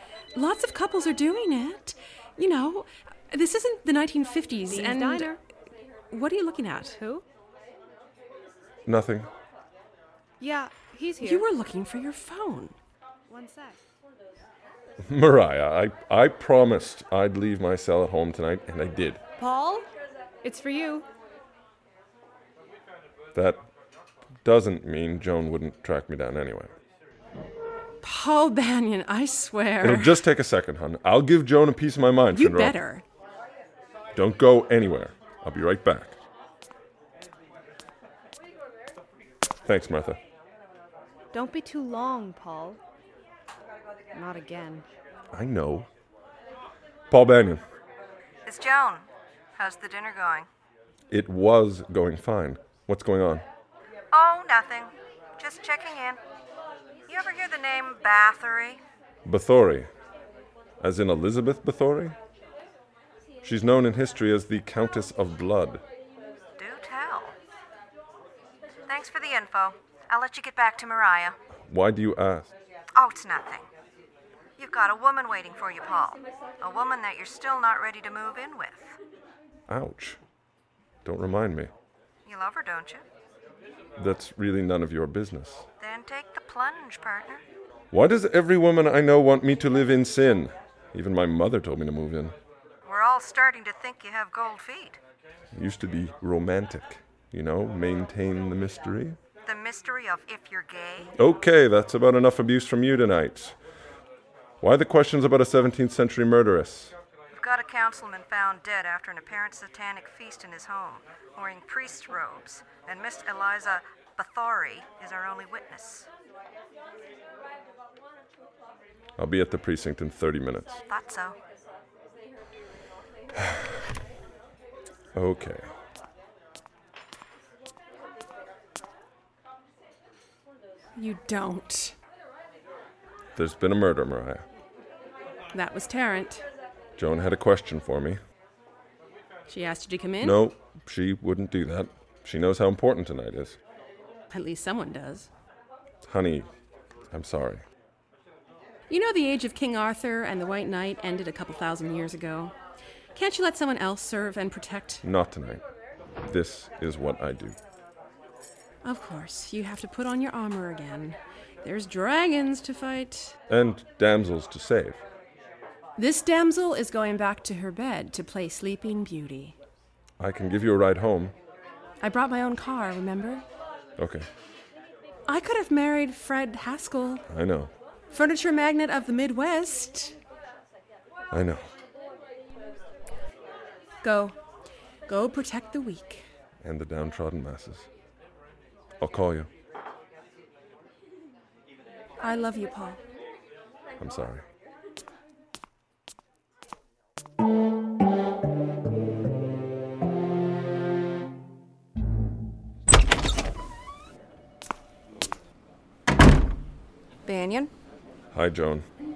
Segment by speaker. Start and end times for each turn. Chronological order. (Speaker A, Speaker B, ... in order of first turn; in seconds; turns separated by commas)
Speaker A: 0.3-5.4, Speaker B: 4.7-5.4, Speaker A: 6.1-7.2, Speaker C: 8.9-9.3, Speaker B: 10.4-11.5, Speaker A: 11.2-12.8, Speaker B: 13.3-13.8, Speaker C: 15.0-19.2, Speaker B: 19.4-19.9, Speaker B: 20.4-21.1, Speaker C: 23.3-23.6, Speaker C: 24.4-26.7, Speaker A: 28.0-30.2, Speaker C: 29.8-32.8, Speaker A: 32.3-33.0, Speaker C: 34.1-36.2, Speaker C: 39.6-40.2, Speaker B: 41.3-42.8, Speaker B: 44.1-44.9, Speaker C: 45.3-45.9, Speaker C: 47.1-47.6, Speaker D: 48.5-50.5, Speaker C: 51.1-53.5, Speaker D: 54.1-56.2, Speaker D: 57.1-58.8, Speaker C: 59.2-59.9, Speaker C: 60.8-62.2, Speaker C: 63.4-65.8, Speaker D: 66.6-67.4, Speaker D: 68.9-71.4, Speaker C: 71.7-72.5, Speaker D: 73.0-73.7, Speaker D: 74.6-79.0, Speaker C: 79.7-80.2, Speaker C: 81.0-81.7, Speaker D: 82.3-83.0, Speaker C: 84.0-85.7, Speaker D: 85.8-87.4, Speaker C: 87.9-92.4, Speaker D: 92.8-95.0, Speaker C: 95.5-99.2, Speaker D: 99.4-101.1, Speaker C: 101.2-103.5, Speaker C: 104.6-107.0, Speaker D: 107.3-116.1, Speaker C: 119.2-120.8, Speaker D: 120.9-121.4, Speaker C: 123.4-123.7, Speaker C: 125.1-125.7, Speaker A: 131.0-131.9, Speaker C: 133.3-134.4, Speaker A: 135.5-136.4, Speaker C: 137.0-138.2, Speaker A: 139.5-140.4, Speaker C: 140.2-143.6, Speaker A: 144.3-145.3, Speaker C: 146.0-146.5, Speaker C: 147.1-147.6, Speaker A: 148.9-152.5, Speaker A: 153.2-155.0, Speaker C: 155.0-155.6, Speaker C: 156.2-157.6, Speaker A: 158.8-163.3, Speaker C: 163.5-165.0, Speaker A: 166.0-169.6, Speaker C: 170.2-171.3, Speaker A: 172.0-173.4, Speaker C: 174.0-174.3, Speaker A: 175.3-177.2, Speaker C: 177.3-177.7, Speaker A: 178.1-180.2, Speaker C: 181.3-181.7, Speaker A: 184.0-184.3, Speaker A: 185.1-186.2, Speaker C: 186.6-187.9, Speaker C: 189.0-189.5, Speaker A: 192.2-193.0, Speaker C: 194.0-194.4, Speaker D: 207.3-207.7, Speaker C: 208.3-208.9